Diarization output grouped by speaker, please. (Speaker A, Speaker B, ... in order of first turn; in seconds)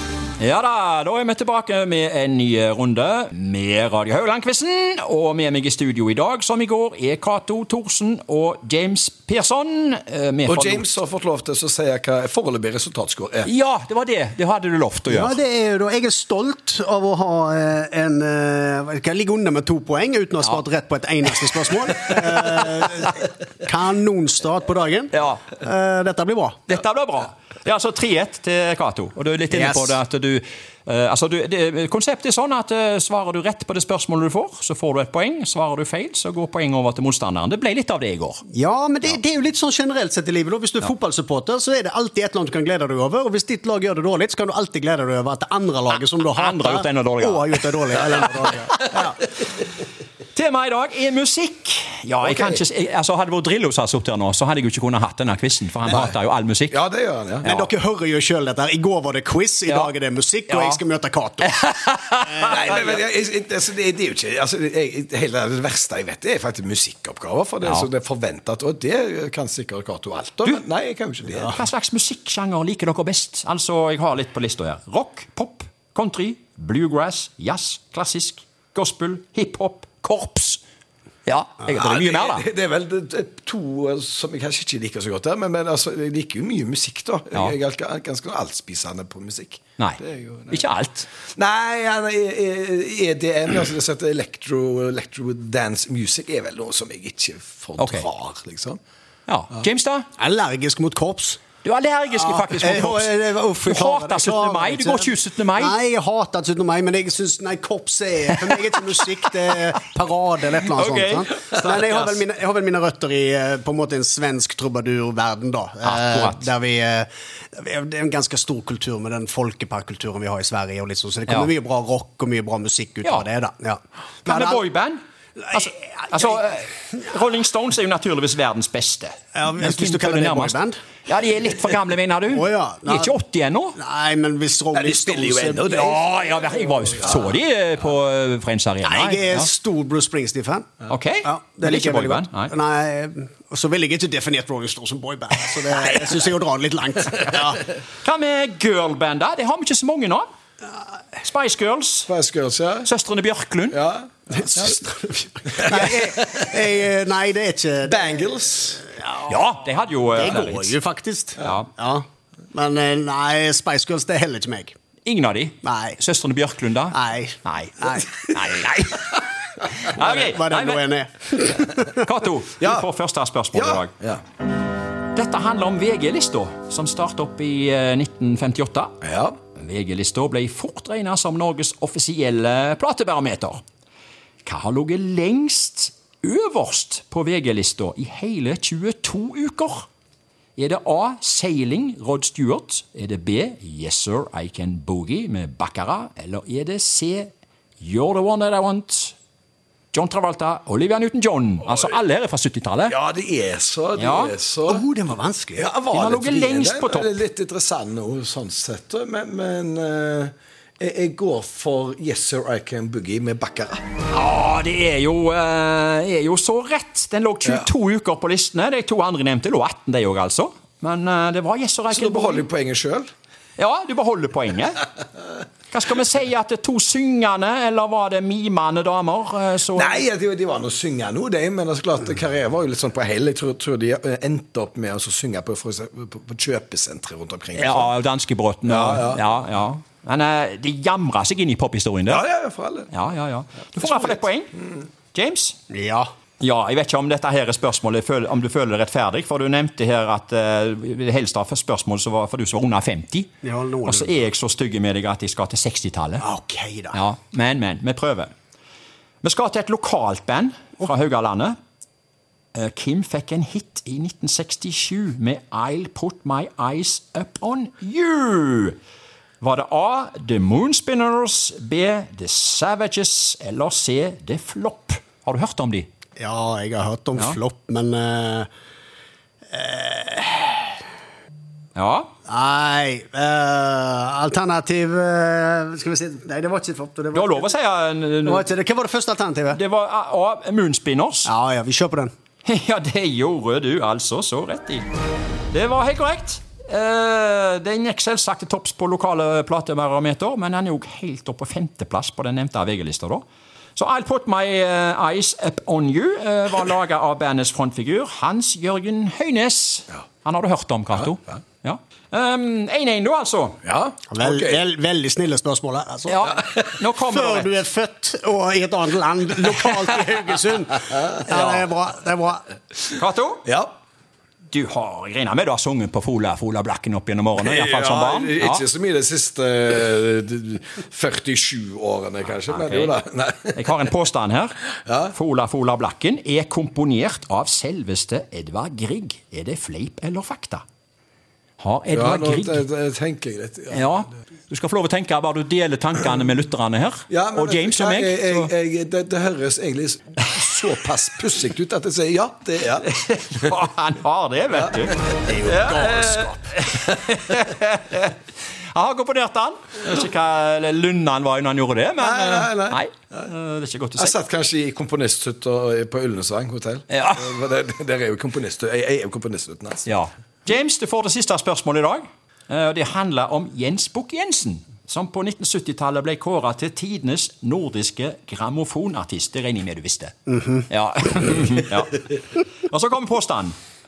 Speaker A: 0.4-10.9, 13.4-15.4, 25.1-25.5, 26.7-38.5, 46.3-47.8, 50.3-56.8, 57.4-57.7, 59.7-59.9, 60.5-60.8, 61.4-62.6, 71.4-80.6, 81.3-82.5, 89.8-91.1, 97.8-98.1, 99.3-100.1, 101.6-105.8, 110.7-111.3, 115.8-116.5, 124.2-125.0, 125.5-133.8, 135.7-139.5, 140.9-142.5, 148.0-150.3, 151.2-152.1, 152.8-153.8, 159.3-160.8, 161.4-161.7, 165.1-170.8, 171.9-173.9, 175.1-178.9, 179.6-183.6, 184.4-189.9, 190.6-199.2, 199.9-203.0, 204.0-204.3, 205.9-207.2, 214.1-222.5, 223.6-224.9, 225.7-230.0, 237.6-242.2, 242.9-244.5, 245.1-245.6, 246.4-253.3, 253.9-256.2, 256.9-258.3, 259.2-261.6, 262.5-268.8, 269.4-275.9, 281.8-282.1, 287.1-288.5, 289.5-291.3, 292.4-294.9, 295.5-303.2, 303.8-313.6, 316.1-317.5, 322.9-323.5, 324.5-328.6, 332.5-333.0, 333.6-334.6, 335.1-340.6, 341.6-342.6, 343.7-348.5, 352.9-358.2, 358.7-364.1, 366.9-367.3, 369.9-382.1, 382.7-383.5
Speaker B: 10.5-13.5, 52.3-52.6, 55.9-56.1, 56.7-57.5, 62.4-71.6, 81.7-90.6, 91.4-98.8, 134.7-136.1, 137.0-137.3, 152.1-152.9, 153.7-154.8, 155.6-156.4, 157.9-158.9, 173.5-174.2, 179.0-179.4, 202.9-204.8, 205.6-213.8, 221.9-223.1, 229.8-237.9, 238.7-239.3, 242.1-242.9, 243.8-244.2, 313.6-314.6, 316.3-316.8, 323.5-323.7, 327.4-333.8, 334.9-335.1, 341.9-343.9, 347.1-353.4, 354.6-355.4, 362.0-363.3, 364.0-369.9
Speaker C: 15.1-26.6, 29.5-30.0, 38.5-49.2, 57.4-61.6, 100.2-101.4, 102.1-124.6, 125.4-126.4, 129.3-130.8, 132.3-133.2, 133.8-136.0, 138.8-147.6, 154.3-159.5, 160.1-164.8, 165.6-166.0, 166.9-168.1, 169.9-172.0, 204.7-205.7, 245.7-246.1, 253.4-254.2, 256.2-257.0, 276.2-278.5, 279.5-280.8, 282.3-287.5, 288.2-289.6, 291.3-292.1, 314.1-316.4, 317.0-322.5, 355.2-356.5